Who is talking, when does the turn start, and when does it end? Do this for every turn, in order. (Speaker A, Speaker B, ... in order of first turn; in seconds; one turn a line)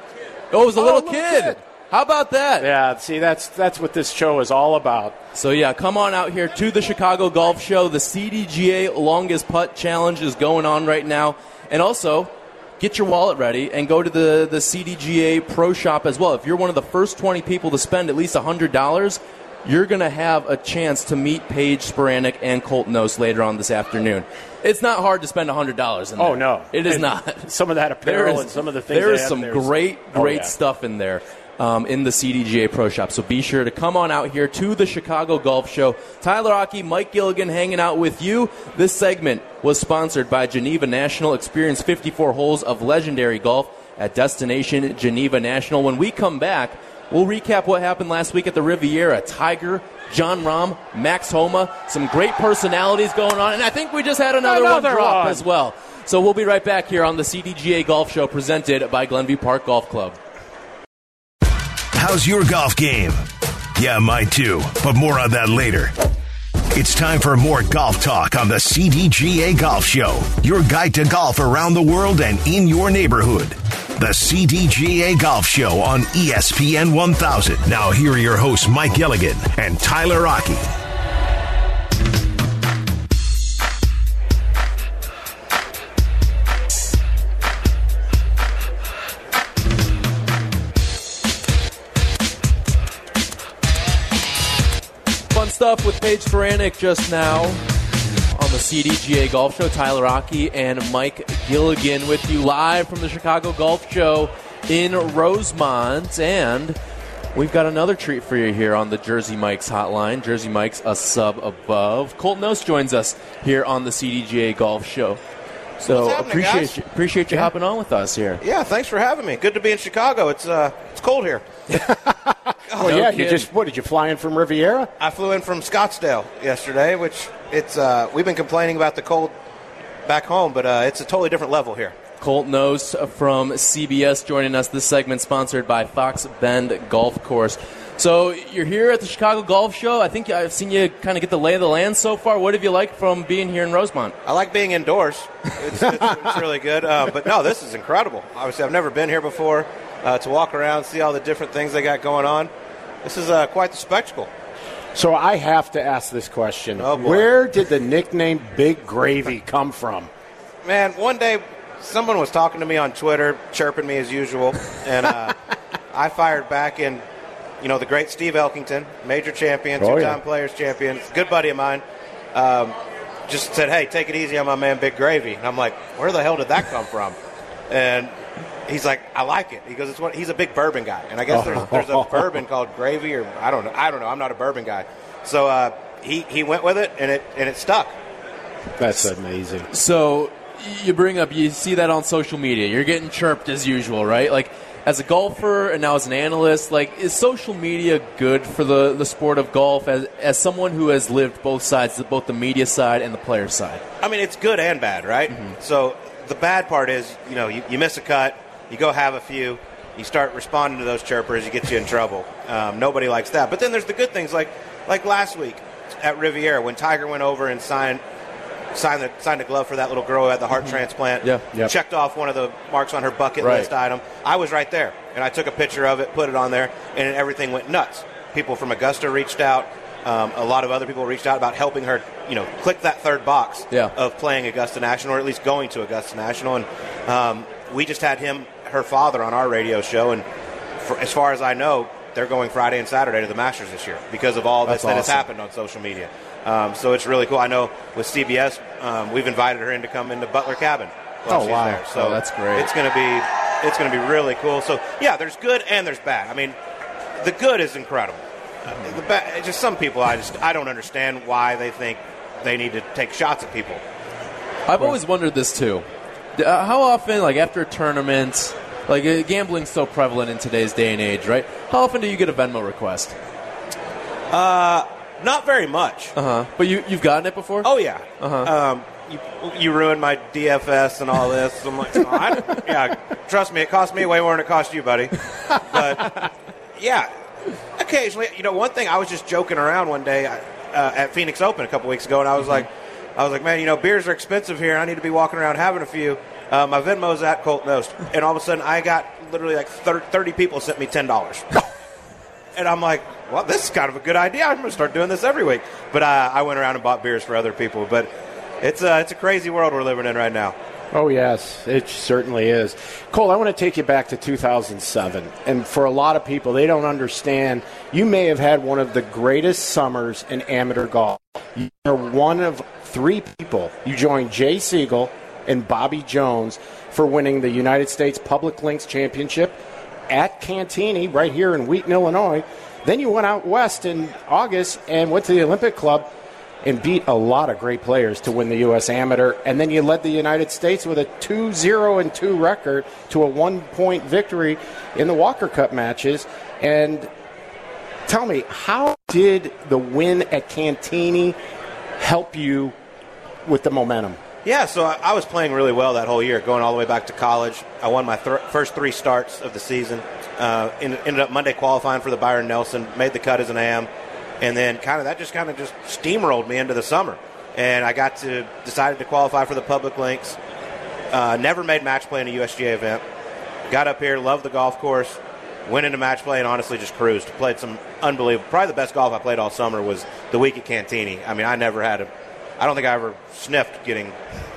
Speaker A: 0.5-2.7
Speaker B: 0.8-1.6
Speaker B: 2.6-5.2
Speaker A: 5.3-60.2
Speaker B: 26.2-30.5
Speaker B: 54.4-55.5
Speaker C: 61.9-63.2
Speaker C: 63.7-65.9
Speaker C: 66.7-80.7
Speaker A: 95.3-97.6
Speaker A: 98.3-106.8
Speaker A: 107.3-115.2
Speaker A: 115.8-118.4
Speaker D: 115.8-116.7
Speaker D: 118.4-121.4
Speaker B: 121.7-124.9
Speaker D: 122.7-123.0
Speaker A: 122.8-123.5
Speaker D: 125.0-129.3
Speaker D: 130.1-131.9
Speaker A: 132.2-144.2
Speaker D: 144.2-152.5
Speaker D: 153.0-154.3
Speaker B: 154.9-160.1
Speaker D: 156.8-157.3
Speaker D: 160.6-165.4
Speaker D: 165.9-167.0
Speaker D: 167.6-172.8
Speaker B: 169.8-170.2
Speaker D: 173.3-177.2
Speaker D: 177.7-178.1
Speaker D: 178.7-187.9
Speaker B: 181.3-182.3
Speaker B: 188.8-189.7
Speaker A: 189.7-203.8
Speaker D: 204.0-218.0
Speaker D: 218.7-240.2
Speaker A: 223.4-223.7
Speaker D: 240.8-256.6
Speaker B: 244.6-245.2
Speaker A: 251.3-252.7
Speaker B: 251.3-251.7
Speaker D: 257.2-263.8
Speaker A: 264.7-265.8
Speaker A: 266.4-273.1
Speaker D: 274.3-276.1
Speaker A: 276.1-278.5
Speaker D: 277.6-286.2
Speaker D: 286.8-287.1
Speaker D: 287.8-301.5
Speaker D: 302.5-308.1
Speaker D: 308.6-310.6
Speaker B: 310.9-329.6
Speaker B: 330.1-336.1
Speaker B: 336.6-347.1
Speaker B: 348.1-351.4
Speaker B: 352.0-352.7
Speaker B: 353.4-354.2
Speaker D: 354.4-363.9
Speaker D: 364.4-370.4
Speaker D: 371.1-373.0
Speaker D: 373.7-384.1